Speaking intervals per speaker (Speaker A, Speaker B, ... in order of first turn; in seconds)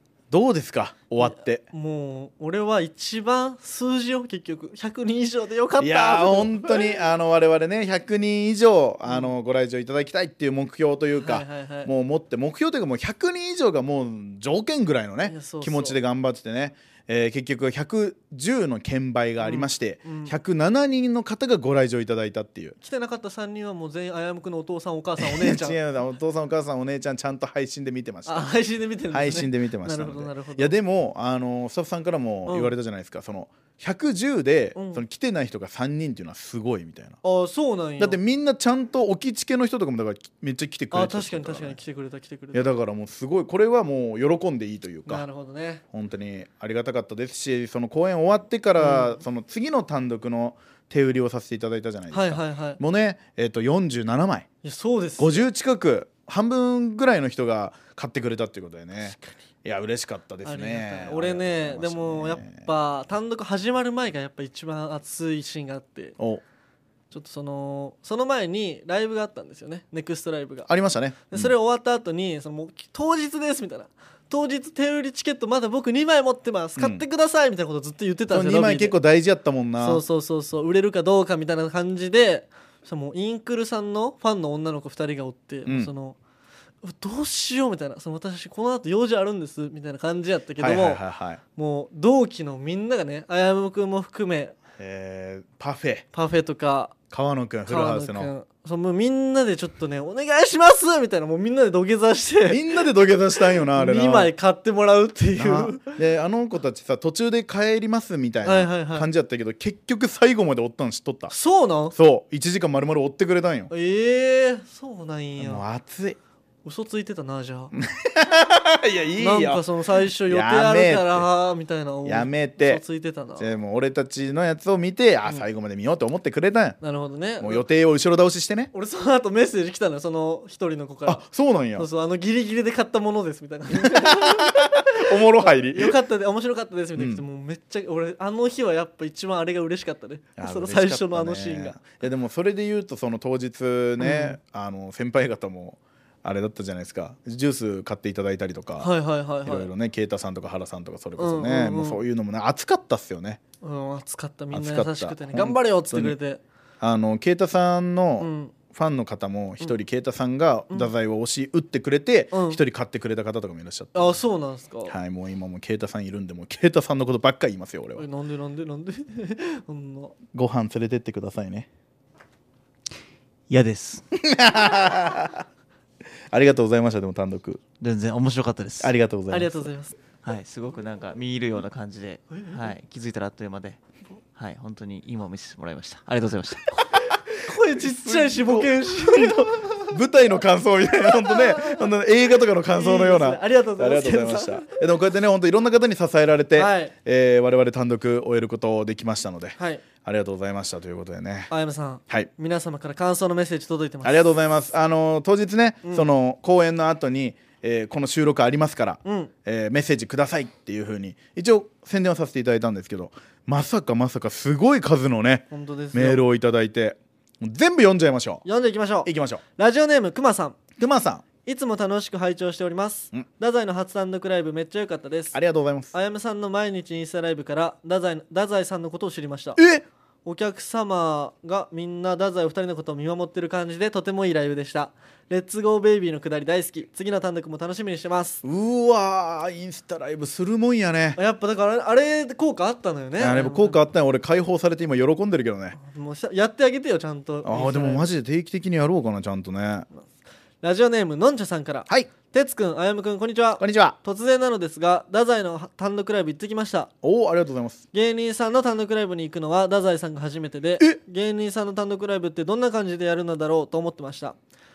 Speaker A: 0.3-1.6, 5.8-22.7, 25.2-28.5, 29.1-37.2, 38.0-41.8, 42.5-45.2, 45.9-54.5, 55.2-62.7, 70.7-71.5, 76.8-77.0, 78.3-80.0, 90.6-91.4, 94.8-96.0, 97.1-98.3, 102.5-104.3, 105.4-111.3, 111.9-113.7, 115.4-116.2, 117.7-121.3, 122.0-122.8, 123.4-126.8, 127.4-128.7, 131.1-131.9, 133.8-135.9, 136.9-137.2, 140.4-148.9, 149.4-153.4, 154.5-156.2, 156.8-164.2, 164.9-168.0, 170.3-171.7, 174.2-175.4, 176.3-177.6, 178.8-179.7, 187.7-201.5, 204.0-218.4, 219.0-219.4, 220.8-221.2, 225.3-225.9, 229.6-229.8, 238.4-241.2, 243.2-245.8, 247.4-249.9, 253.6-253.9, 257.0-257.8
Speaker B: 1.2-6.9, 11.2-11.9, 15.2-16.0, 19.4-20.4, 22.8-25.8, 28.3-30.7, 32.5-32.7, 34.8-35.0, 37.2-38.2, 40.9-42.7, 45.0-45.8, 48.8-49.2, 52.1-52.8, 54.6-55.5, 60.4-66.1, 67.1-70.7, 71.3-78.9, 79.8-86.2, 86.8-91.0, 91.5-94.5, 96.1-96.9, 97.7-102.7, 103.6-105.9, 108.4-109.1, 111.3-111.9, 113.7-115.6, 116.6-117.7, 119.2-123.5, 126.8-127.6, 128.7-131.2, 131.8-141.9, 144.0-144.3, 148.8-149.7, 151.2-152.0, 153.6-156.4, 158.2-158.5, 162.3-162.6, 163.9-164.9, 168.0-170.1, 179.3-179.9, 182.3-182.6, 187.4-189.8, 191.3-191.8, 192.7-194.7, 196.5-196.9, 199.6-199.8, 201.5-204.3, 209.0-209.3, 215.5-216.2, 218.4-220.6, 221.4-225.4, 225.9-229.6, 230.2-238.4, 241.2-243.8, 245.8-248.1, 250.6-256.9, 257.9-264.4
Speaker C: 173.5-174.0, 177.8-178.9, 180.2-183.8, 184.3-186.7